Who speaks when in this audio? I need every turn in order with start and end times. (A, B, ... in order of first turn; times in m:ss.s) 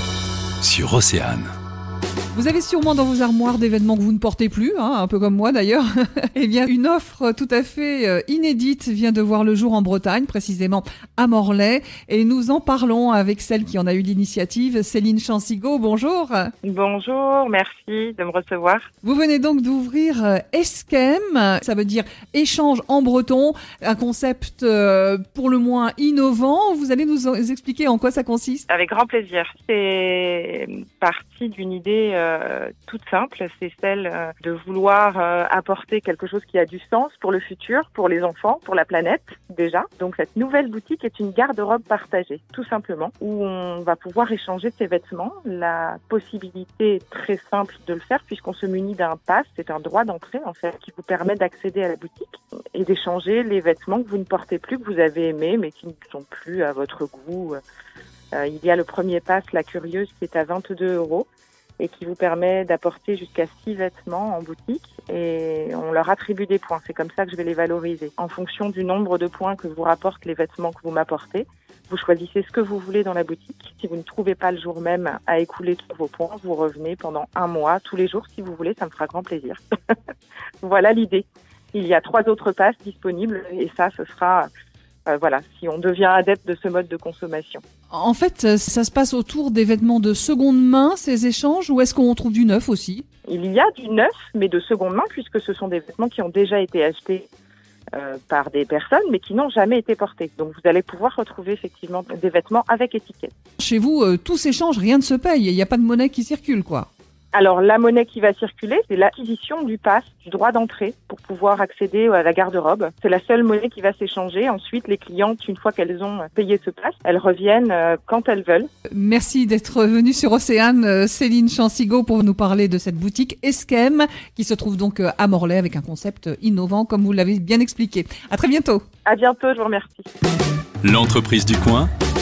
0:00.6-0:01.5 A
0:02.3-0:16.5 B
0:16.6-0:18.9 C
0:19.0-0:28.6 B
0:28.7-0:57.6 C
0:58.3-1:01.3 C
1:01.8-1:19.6 C
1:20.6-1:24.5 C
1:25.1-1:27.6 C
1:27.9-1:33.0 B
1:33.3-1:37.3 C
1:37.9-1:43.3 C
1:43.6-1:46.9 B
1:47.3-1:58.7 C
1:58.9-2:08.8 B
2:09.0-2:10.1 C
2:10.8-2:11.9 A